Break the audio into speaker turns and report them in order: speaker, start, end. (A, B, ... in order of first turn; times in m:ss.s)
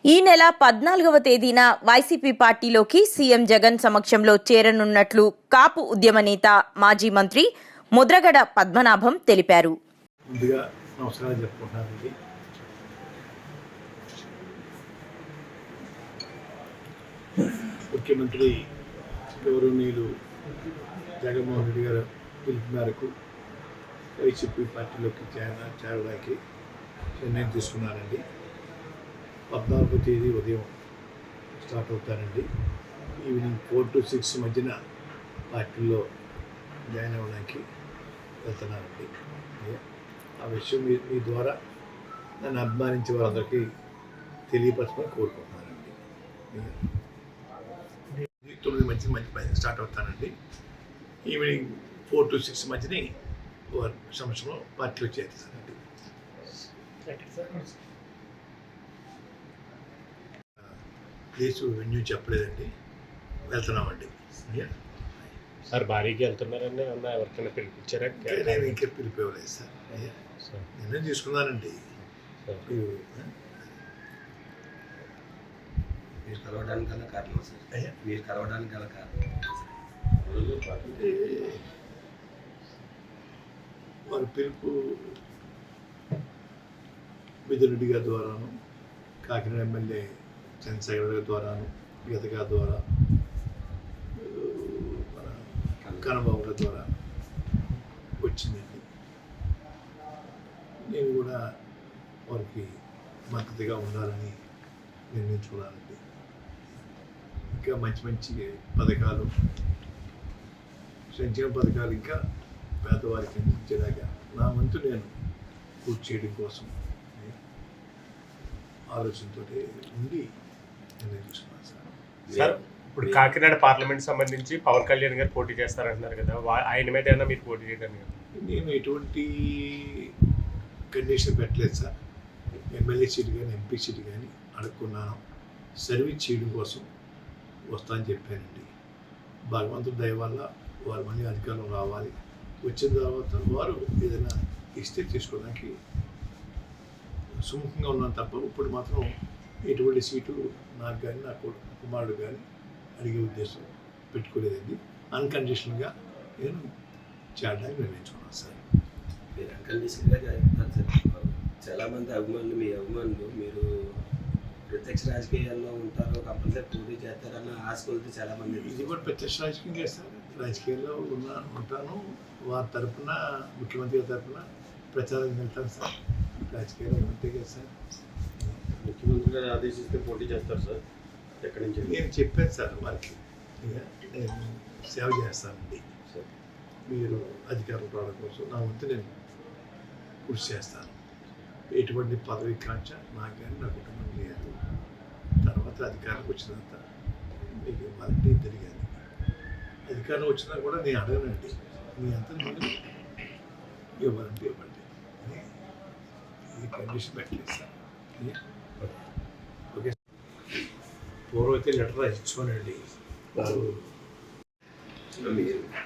0:00.2-0:07.4 A
0:08.0-0:09.7 A
0:10.3-0:12.1 B
0:17.9-0:18.6 B
0:19.4-0:20.1 B
0:21.2-0:23.1 B
0:24.2-0:26.4 B
0:27.2-0:28.2 B
0:29.5-0:30.7 B
0:31.5-0:32.5 B
0:33.2-0:34.8 B
0:35.5-0:36.0 B
0:36.9-0:37.6 B
0:38.4-0:39.8 B
0:40.4-0:41.6 B
0:42.4-0:43.6 B
0:44.5-0:46.0 B
0:48.4-0:50.3 B
0:51.3-0:53.1 B
0:53.7-0:55.8 B
0:57.0-0:57.8 C
1:01.4-1:02.7 B
1:03.5-1:04.8 B
1:05.7-1:08.8 C
1:08.2-1:10.1 B
1:10.8-1:11.8 B
1:12.7-1:13.3 B
1:16.2-1:19.8 D
1:20.2-1:21.1 E
1:20.9-1:21.6 B
1:24.1-1:25.2 B
1:27.5-1:28.5 B
1:29.2-1:30.1 B
1:30.6-1:32.8 B
1:34.2-1:36.9 B
1:35.8-1:36.2 D
1:38.2-1:38.8 B
1:40.9-1:41.4 B
1:42.3-1:42.7 B
1:43.3-1:44.4 B
1:45.1-1:46.0 B
1:47.5-1:49.3 B
1:51.1-1:52.2 B
1:52.8-1:55.1 B
1:55.8-1:57.4 B
1:58.9-2:00.2 B
2:01.0-2:01.9 B
2:02.3-2:03.3 D
2:02.4-2:08.1 C
2:08.4-2:10.1 B
2:10.9-2:11.9 B
2:12.7-2:15.2 B
2:15.8-2:16.9 B
2:17.7-2:18.7 B
2:19.5-2:25.7 B
2:27.5-2:29.1 B
2:29.7-2:32.4 B
2:33.0-2:36.6 B
2:37.4-2:38.6 B
2:39.4-2:43.7 D
2:44.7-2:49.1 D
2:48.5-2:57.7 B
2:58.8-3:00.8 E
3:01.4-3:02.0 E
3:01.9-3:05.8 B
3:06.9-3:09.1 B
3:10.3-3:11.0 B
3:11.7-3:14.5 B
3:15.4-3:16.8 B
3:17.6-3:19.0 B
3:19.9-3:22.7 B
3:24.0-3:25.4 B
3:26.6-3:28.4 B
3:31.3-3:32.8 B
3:33.4-3:33.8 B
3:35.2-3:35.7 D